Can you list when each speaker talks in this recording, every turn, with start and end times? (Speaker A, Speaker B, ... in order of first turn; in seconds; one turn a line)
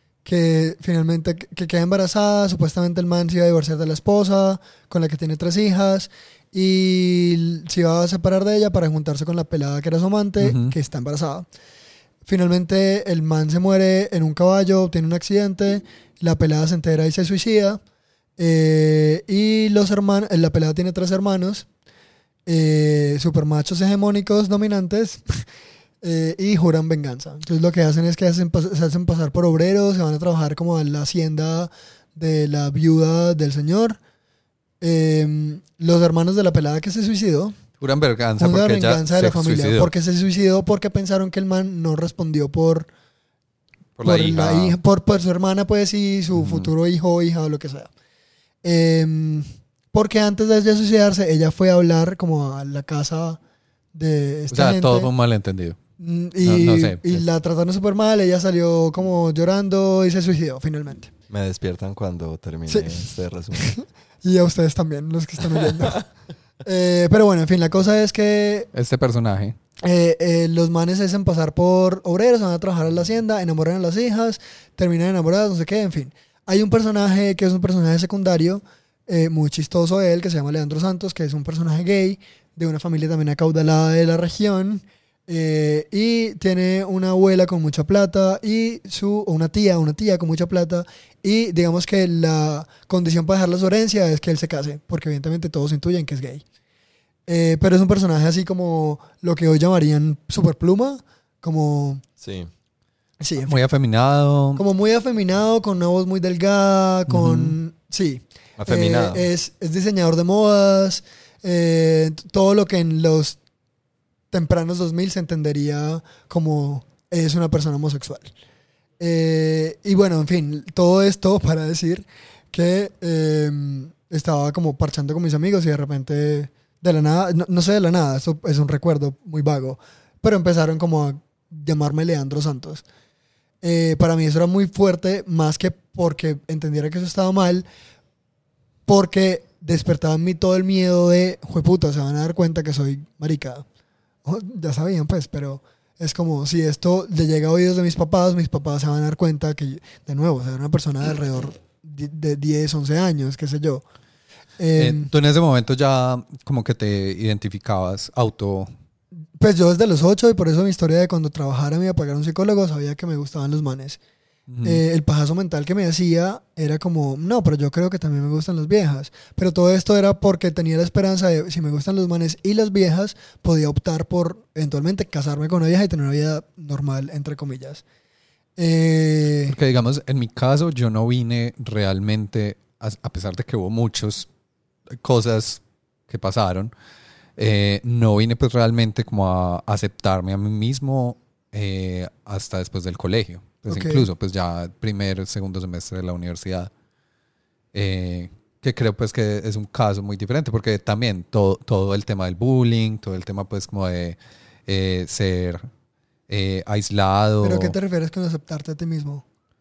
Speaker A: 0.2-11.5
Speaker B: 10.4-10.8
Speaker A: 12.3-17.8
Speaker A: 18.4-21.7
Speaker A: 22.5-25.4
Speaker A: 26.0-34.0
Speaker A: 34.8-37.6
Speaker B: 37.8-39.9
Speaker A: 38.4-42.9
Speaker B: 44.0-44.8
Speaker A: 44.0-47.9
Speaker B: 46.3-46.7
Speaker A: 48.6-53.4
Speaker A: 53.9-55.1
Speaker B: 54.5-55.8
Speaker A: 56.0-61.1
Speaker B: 56.4-57.3
Speaker C: 61.3-63.7
Speaker A: 62.7-66.1
Speaker A: 66.6-68.7
Speaker B: 68.7-69.6
Speaker A: 69.8-96.4
Speaker A: 97.3-102.0
Speaker C: 102.2-102.5
Speaker A: 103.2-103.6
Speaker B: 103.4-104.6
Speaker A: 104.6-113.4
Speaker B: 107.1-107.6
Speaker C: 108.6-109.3
Speaker A: 114.3-118.3
Speaker A: 119.0-132.8
Speaker A: 133.6-137.7
Speaker A: 138.9-143.7
Speaker A: 144.2-153.8
Speaker A: 154.6-155.1
Speaker B: 154.8-158.7
Speaker A: 159.4-164.0
Speaker B: 164.5-164.8
Speaker A: 164.6-177.8
Speaker A: 178.6-179.6
Speaker B: 179.5-184.3
Speaker B: 184.9-186.7
Speaker B: 187.4-196.7
Speaker A: 193.7-194.1
Speaker B: 197.7-205.7
Speaker B: 206.3-207.8
Speaker A: 207.4-209.2